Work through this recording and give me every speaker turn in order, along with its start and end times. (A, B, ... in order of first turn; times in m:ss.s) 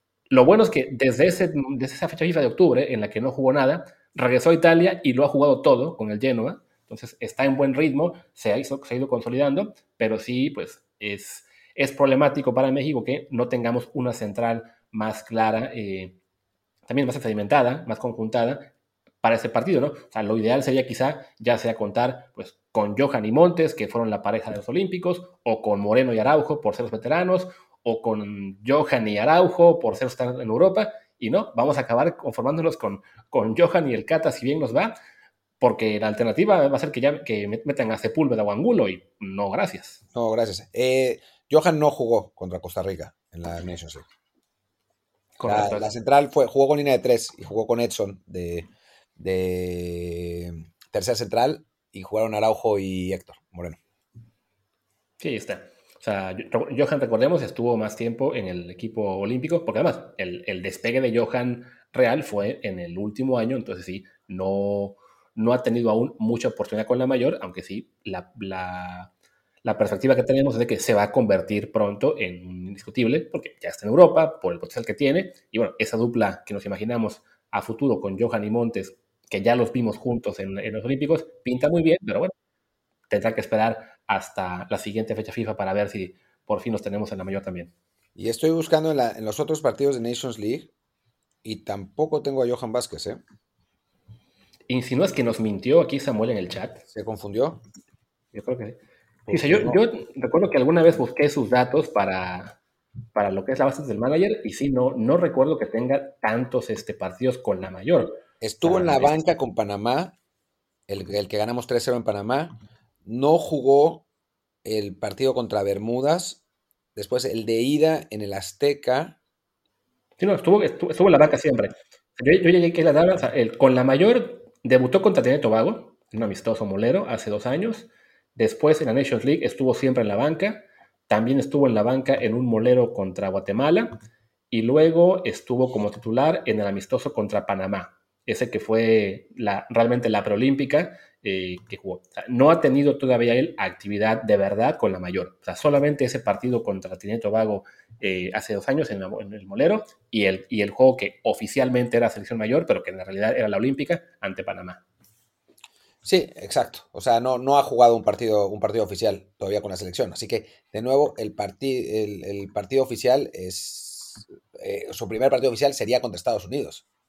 0:00.3-0:16.2 A
0:16.9-0:34.9 A
0:35.6-0:40.0 A
0:40.1-0:44.0 B
0:45.4-0:45.9 A
0:45.4-0:53.8 B
0:55.2-1:09.1 A
1:09.6-1:22.3 A
1:23.1-1:27.7 A
1:28.2-1:30.7 B
1:31.4-1:33.2 B
1:34.7-1:36.8 A
1:36.9-1:37.6 B
1:38.3-1:42.6 A
1:39.3-1:39.8 B
1:43.1-1:49.2 A
1:48.4-1:50.2 B
1:50.9-1:54.1 B
1:54.6-1:56.4 B
1:57.0-1:59.2 B
2:00.2-2:14.0 A
2:14.5-2:34.8 A
2:36.0-2:46.8 B